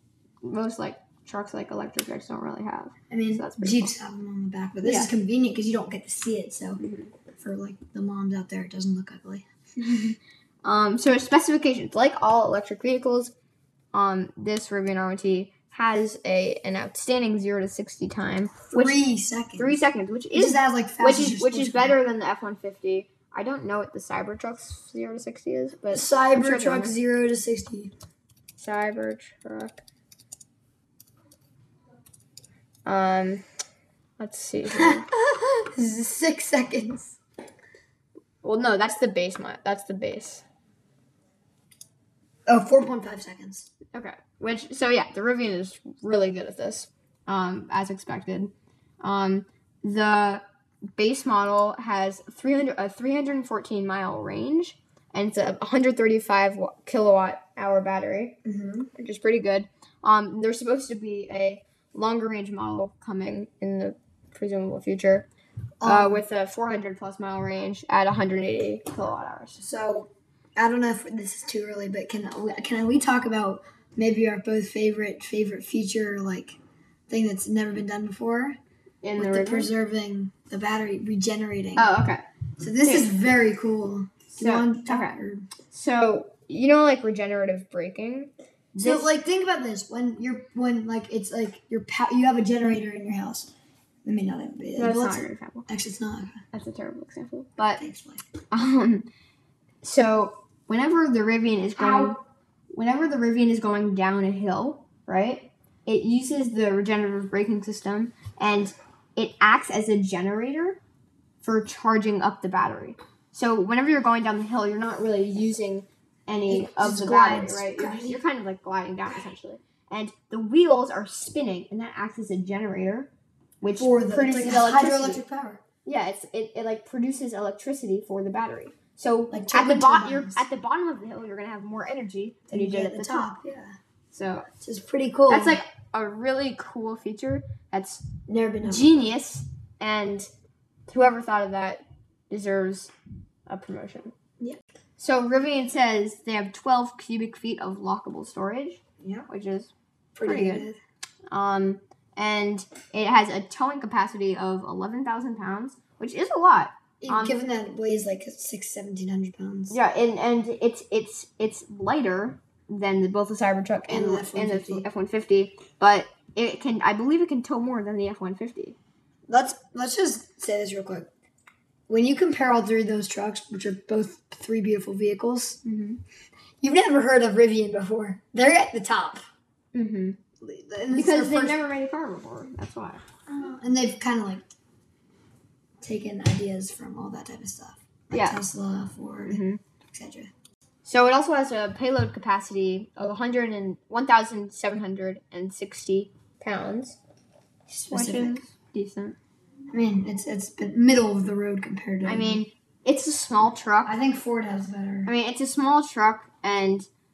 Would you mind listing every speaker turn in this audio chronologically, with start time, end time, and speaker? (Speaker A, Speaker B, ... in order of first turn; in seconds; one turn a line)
Speaker A: 0.4-3.9
Speaker B: 3.1-6.8
Speaker A: 4.8-5.1
Speaker A: 6.8-7.1
Speaker B: 7.4-9.5
Speaker A: 9.8-13.3
Speaker A: 13.9-19.0
Speaker B: 18.7-19.8
Speaker A: 19.6-26.9
Speaker B: 20.3-22.0
Speaker B: 25.9-27.9
Speaker A: 28.6-29.8
Speaker A: 32.9-33.4
Speaker A: 34.2-35.1
Speaker B: 34.7-37.2
Speaker A: 38.4-40.5
Speaker B: 42.5-43.7
Speaker A: 43.9-50.4
Speaker A: 51.0-58.4
Speaker B: 58.5-58.9
Speaker A: 59.0-65.3
Speaker B: 65.8-66.2
Speaker A: 65.8-69.6
Speaker B: 69.6-76.6
Speaker B: 77.1-78.6
Speaker A: 79.0-79.7
Speaker B: 79.2-81.9
Speaker A: 81.8-82.2
Speaker B: 82.6-85.5
Speaker A: 82.8-83.1
Speaker A: 84.3-85.2
Speaker A: 85.7-89.1
Speaker B: 88.8-93.5
Speaker B: 94.0-96.4
Speaker A: 94.8-95.7
Speaker A: 96.5-97.8
Speaker B: 97.8-98.2
Speaker A: 98.5-99.1
Speaker A: 99.8-102.2
Speaker B: 101.8-102.2
Speaker A: 102.7-110.8
Speaker A: 111.4-123.1
Speaker B: 116.5-118.2
Speaker A: 123.6-125.2
Speaker B: 123.8-125.6
Speaker A: 125.8-133.3
Speaker B: 129.3-130.4
Speaker B: 132.5-133.8
Speaker A: 134.1-134.5
Speaker B: 134.6-135.6
Speaker A: 135.3-138.1
Speaker B: 138.3-138.9
Speaker A: 138.6-140.3
Speaker A: 140.9-142.9
Speaker A: 143.5-144.1
Speaker A: 145.0-149.7
Speaker B: 149.0-149.3
Speaker B: 150.2-150.8
Speaker A: 150.2-150.7
Speaker A: 151.3-157.4
Speaker B: 157.0-159.8
Speaker A: 159.7-168.8
Speaker B: 163.9-164.9
Speaker B: 169.3-171.1
Speaker B: 171.9-175.6
Speaker A: 175.7-176.0
Speaker B: 176.6-179.2
Speaker A: 179.7-180.2
Speaker B: 180.4-181.6
Speaker A: 180.9-183.0
Speaker B: 183.3-184.4
Speaker B: 185.8-190.3
Speaker A: 188.1-188.4
Speaker A: 189.3-189.6
Speaker A: 190.8-197.0
Speaker A: 197.7-199.2
Speaker B: 197.9-198.4
Speaker B: 199.7-202.4
Speaker A: 202.1-204.0
Speaker B: 203.8-205.1
Speaker A: 205.1-206.9